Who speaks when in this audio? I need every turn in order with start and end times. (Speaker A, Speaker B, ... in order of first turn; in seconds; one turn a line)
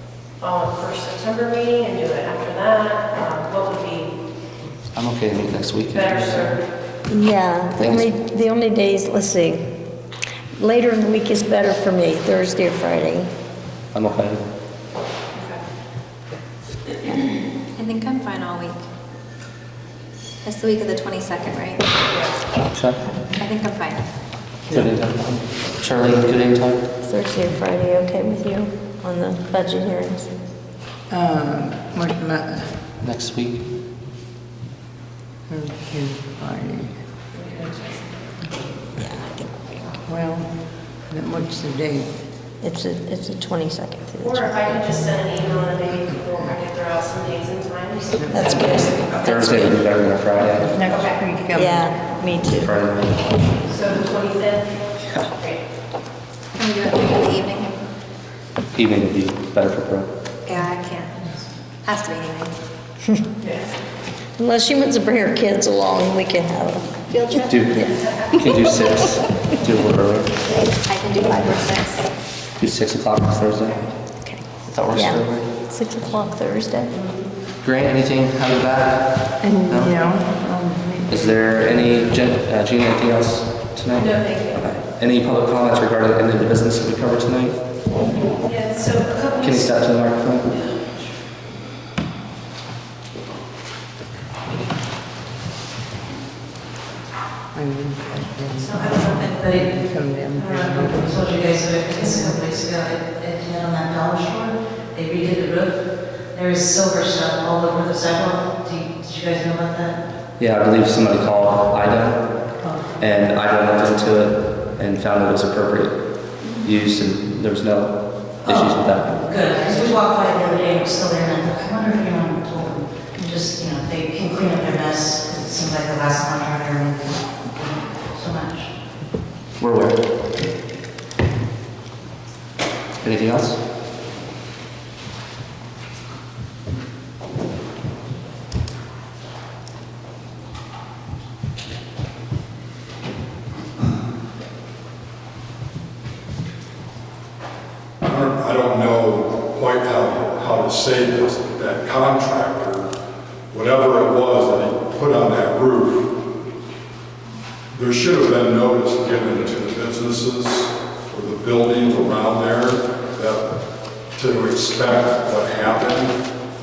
Speaker A: 0.4-4.2
Speaker B: 4.9-6.5
Speaker A: 5.9-6.7
Speaker C: 7.1-9.7
Speaker B: 7.8-8.1
Speaker C: 10.6-13.3
Speaker B: 13.9-14.4
Speaker D: 17.7-18.8
Speaker D: 20.4-21.9
Speaker A: 22.1-22.4
Speaker B: 22.7-23.1
Speaker D: 23.4-24.1
Speaker B: 24.7-26.9
Speaker C: 27.0-30.4
Speaker E: 31.1-32.9
Speaker B: 33.0-33.7
Speaker E: 35.5-37.0
Speaker A: 37.3-38.1
Speaker C: 39.0-40.0
Speaker E: 40.0-42.1
Speaker C: 42.6-44.5
Speaker A: 44.2-49.4
Speaker C: 48.2-49.8
Speaker B: 49.2-50.7
Speaker E: 50.4-51.8
Speaker A: 50.9-51.1
Speaker C: 51.5-52.7
Speaker B: 52.5-53.4
Speaker A: 53.6-55.6
Speaker D: 56.5-57.8
Speaker B: 58.7-60.1
Speaker D: 60.5-61.2
Speaker D: 61.8-62.5
Speaker C: 64.4-69.1
Speaker D: 67.0-67.6
Speaker B: 67.5-70.4
Speaker D: 70.6-72.1
Speaker B: 72.6-73.9
Speaker C: 74.2-77.0
Speaker B: 74.7-75.5
Speaker A: 77.0-77.3
Speaker B: 77.6-80.0
Speaker E: 79.4-81.5
Speaker B: 81.1-87.6
Speaker A: 84.0-84.8
Speaker A: 88.3-91.1
Speaker B: 89.4-90.5
Speaker E: 97.5-101.1
Speaker F: 98.5-110.0
Speaker B: 110.4-112.3
Speaker F: 112.6-113.0
Speaker B: 113.0-119.3
Speaker F: 118.4-128.7
Speaker B: 129.6-130.0
Speaker B: 133.0-133.6
Speaker G: 148.0-152.9
Speaker G: 153.5-156.2
Speaker G: 157.7-163.6
Speaker G: 164.1-166.1